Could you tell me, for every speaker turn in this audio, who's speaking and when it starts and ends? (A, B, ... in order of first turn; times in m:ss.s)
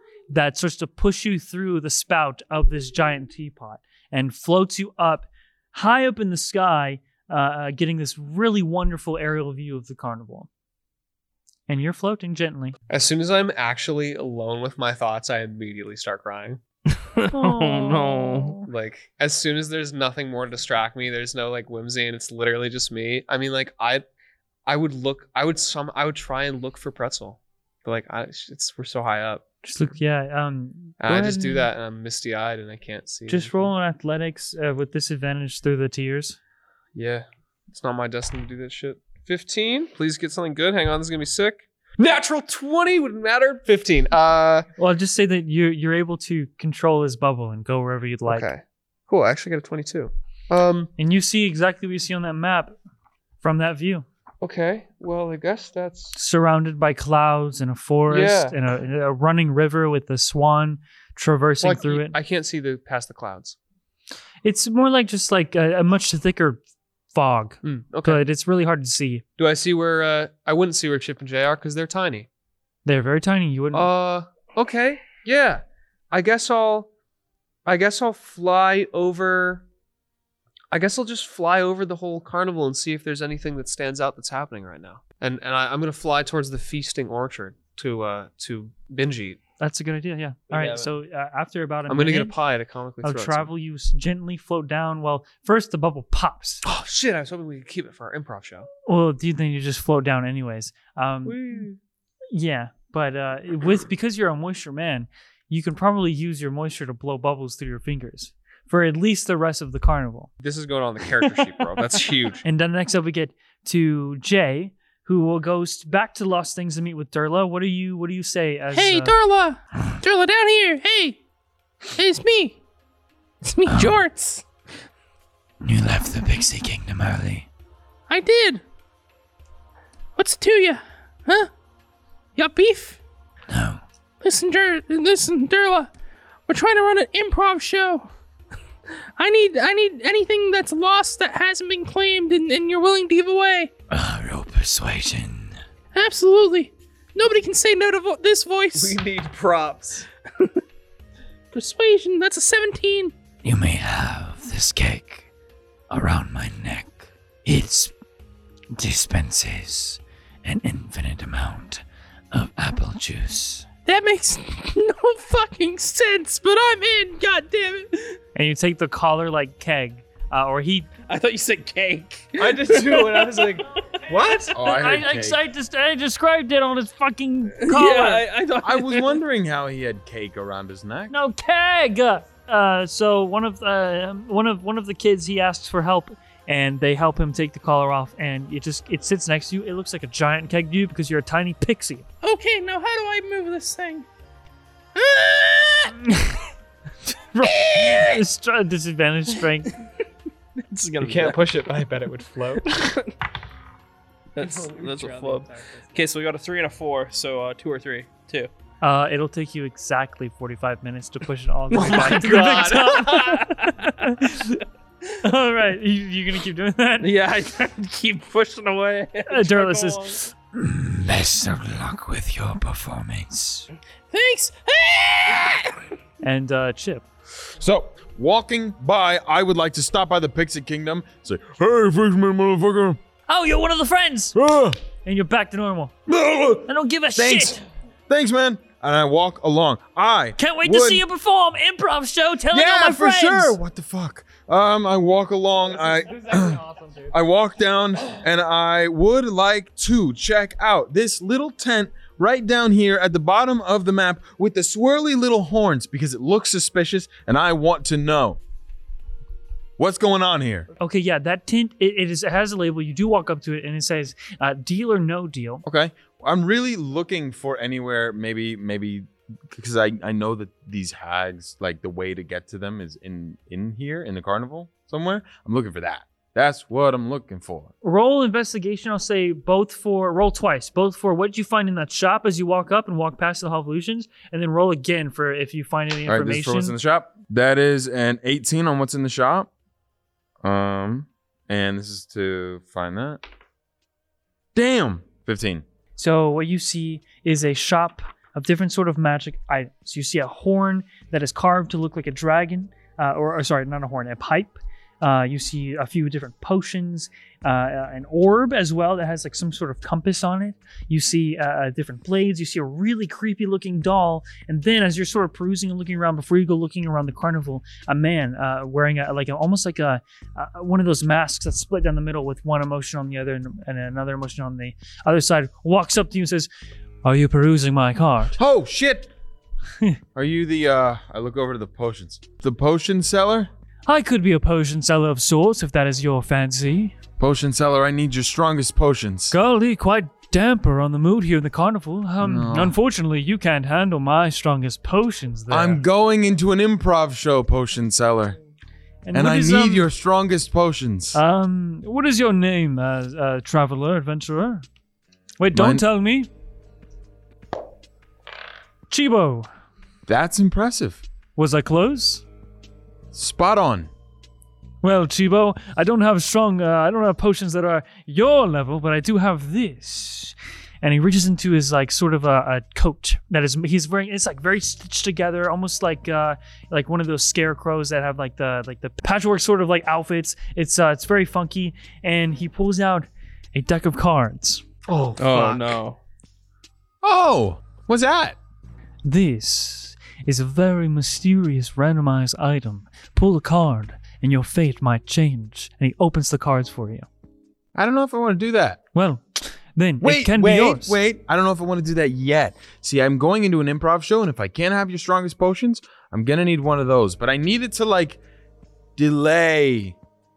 0:00.3-0:10.5 A
0:11.7-0:12.8 A
0:12.9-0:16.6 B
0:17.2-0:18.6 C
0:17.3-0:18.7 A
0:18.7-0:24.0 B
0:24.7-0:29.4 B
0:29.6-0:31.7 A
0:31.0-0:33.7 B
0:33.3-0:36.4 A
0:37.0-0:44.7 B
0:44.8-0:48.5 A
0:48.3-0:50.9 B
0:51.0-0:52.8 A
0:53.4-0:54.0 A
0:54.4-0:56.2 B
0:56.2-1:02.2 A
0:58.1-0:58.6 B
1:01.6-1:03.6 B
1:04.4-1:06.6 A
1:07.1-1:09.2 A
1:07.6-1:08.2 B
1:09.4-1:12.3 B
1:12.9-1:13.9 A
1:13.7-1:16.9 B
1:17.7-1:19.6 B
1:20.7-1:29.4 B
1:29.6-1:32.4 A
1:30.5-1:30.9 C
1:31.9-1:33.5 B
1:33.0-1:36.6 A
1:36.6-1:38.7 B
1:38.9-1:41.7 A
1:41.2-1:41.8 B
1:42.3-1:50.3 A
1:50.4-1:52.4 B
1:51.8-1:59.2 A
1:58.7-2:01.2 D
2:02.0-2:02.6 D
2:03.4-2:04.4 D
2:03.7-2:04.1 E
2:05.6-2:07.5 E
2:08.1-2:08.6 D
2:10.2-2:11.5 D
2:12.4-2:13.0 D
2:13.5-2:13.8 E
2:14.2-2:15.9 D
2:16.5-2:18.1 D
2:19.2-2:23.7 D
2:23.9-2:25.6 E
2:25.9-2:29.0 D
2:28.7-2:30.1 B
2:31.5-2:33.1 D
2:33.4-2:35.3 E
2:35.9-2:37.9 E
2:38.8-2:43.7 E
2:43.9-2:48.2 D
2:48.4-2:50.9 A
2:51.1-2:53.2 C
2:52.4-2:54.5 B
2:54.5-2:58.3 A
2:54.5-2:55.4 F
2:57.6-2:59.2 C
2:58.6-3:01.1 F
3:01.1-3:12.1 A
3:12.2-3:14.1 D
3:15.0-3:15.9 D
3:16.0-3:16.4 A
3:17.3-3:19.8 A
3:20.6-3:21.4 C
3:21.0-3:22.9 B
3:24.4-3:28.5 C
3:24.4-3:25.9 B
3:28.8-3:34.6 A
3:31.7-3:32.8 C
3:31.7-3:33.5 B
3:33.3-3:33.8 C
3:35.2-3:37.1 A
3:37.0-3:40.1 C
3:39.3-3:40.3 A
3:40.5-3:43.7 E
3:44.1-3:45.3 C
3:46.2-3:47.1 A
3:47.6-3:53.0 F
3:53.3-3:54.4 A
3:54.4-3:54.8 F
3:55.0-3:56.0 A
3:56.1-4:01.0 F
3:56.6-3:57.6 A
4:00.4-4:03.6 A
4:02.5-4:18.4 F
4:05.7-4:07.1 B
4:19.8-4:20.7 F
4:20.8-4:25.6 A
4:25.6-4:37.7 F
4:37.8-4:46.8 A
4:46.1-4:49.5 F
4:50.4-4:53.2 F
4:54.6-4:55.6 F
4:56.0-5:26.5 A
5:27.0-5:28.4 A
5:28.4-5:29.1 F
5:30.2-5:33.5 F
5:33.9-5:37.0 A
5:37.2-5:39.4 F
5:39.3-5:45.8 A
5:42.2-5:42.8 F
5:45.5-5:48.4 F
5:49.1-5:49.9 A
5:49.1-5:51.2 F
5:51.1-5:54.6 A
5:55.4-5:56.3 A
5:55.5-5:55.8 F
5:58.9-5:59.5 A
6:00.1-6:01.0 F
6:01.4-6:02.2 A
6:03.1-6:03.9 F
6:04.8-6:24.7 A
6:24.9-6:25.6 B
6:25.2-6:26.0 C
6:27.0-6:28.4 F
6:29.0-6:37.1 A
6:37.8-6:38.8 F
6:38.9-6:41.0 A
6:40.0-6:48.2 F
6:49.0-6:50.0 F